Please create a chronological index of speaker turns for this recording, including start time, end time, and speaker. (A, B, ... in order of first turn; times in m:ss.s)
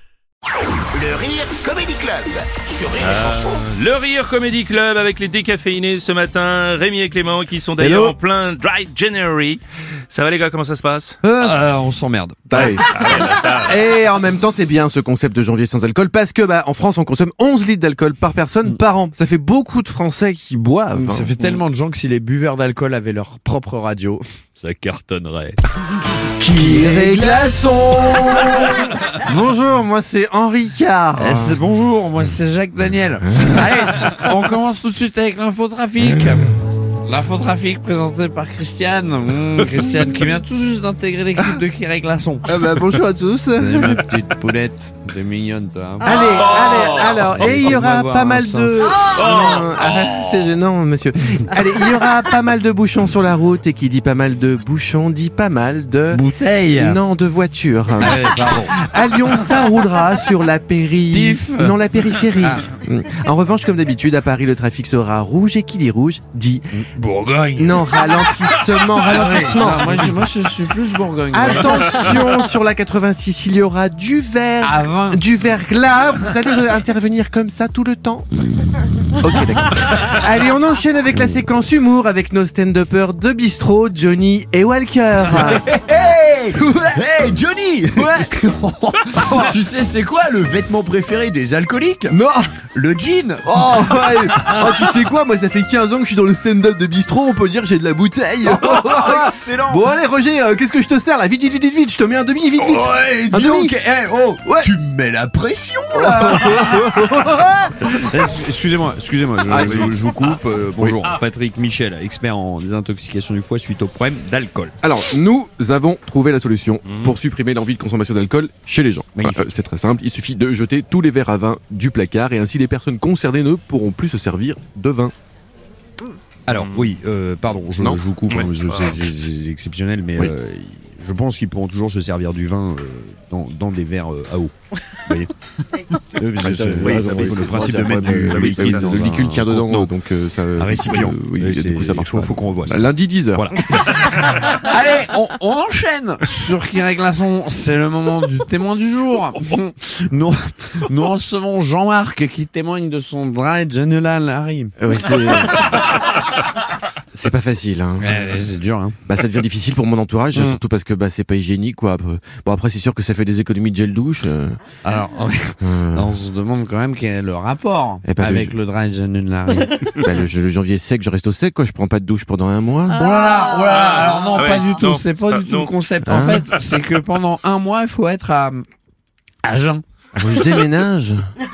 0:00.9-0:03.6 A
0:03.0-0:11.2 B
0:07.8-0:08.2 C
0:11.2-0:12.7 D
0:12.5-0:21.3 C
0:12.6-0:13.8 B
0:20.9-0:25.6 D
0:26.4-0:31.6 C
0:26.5-0:27.5 D
0:31.2-0:36.5 D
0:37.0-0:42.7 D
0:42.5-0:44.0 C
0:43.6-0:48.8 D
0:46.0-0:56.2 C
0:46.3-0:47.4 B
0:49.0-0:50.0 B
0:56.1-0:57.0 D
0:56.8-1:06.7 C
0:58.0-0:58.7 D
0:59.3-0:59.6 D
1:01.1-1:02.7 D
1:06.7-1:08.1 D
1:07.6-1:10.2 C
1:09.0-1:12.3 D
1:11.3-1:18.3 C
1:14.6-1:15.2 D
1:19.1-1:25.7 C
1:25.2-1:32.2 D
1:26.6-1:27.1 C
1:27.9-1:28.4 C
1:32.1-1:32.4 C
1:32.7-1:34.4 D
1:33.4-1:43.8 C
1:38.4-1:39.9 D
1:42.6-1:47.2 D
1:44.4-1:44.7 C
1:45.9-1:48.2 C
1:47.9-1:54.8 D
1:49.4-1:50.0 C
1:54.8-2:05.1 C
1:56.9-1:57.1 B
1:59.2-1:59.4 D
2:06.5-2:15.3 D
2:06.6-2:06.9 B
2:07.8-2:08.4 C
2:08.4-2:09.0 B
2:16.1-2:20.0 D
2:16.3-2:24.1 C
2:18.3-2:19.0 B
2:20.6-2:34.7 D
2:34.8-2:35.9 C
2:37.1-2:38.3 C
2:38.0-2:39.0 D
2:39.1-2:44.6 C
2:40.3-2:40.6 D
2:44.8-2:50.1 D
2:45.6-2:46.1 C
2:48.0-2:48.5 C
2:49.8-2:53.0 C
2:52.9-2:58.7 D
2:53.8-2:55.8 B
2:56.0-2:56.4 C
2:59.4-2:59.8 D
3:00.2-3:01.3 C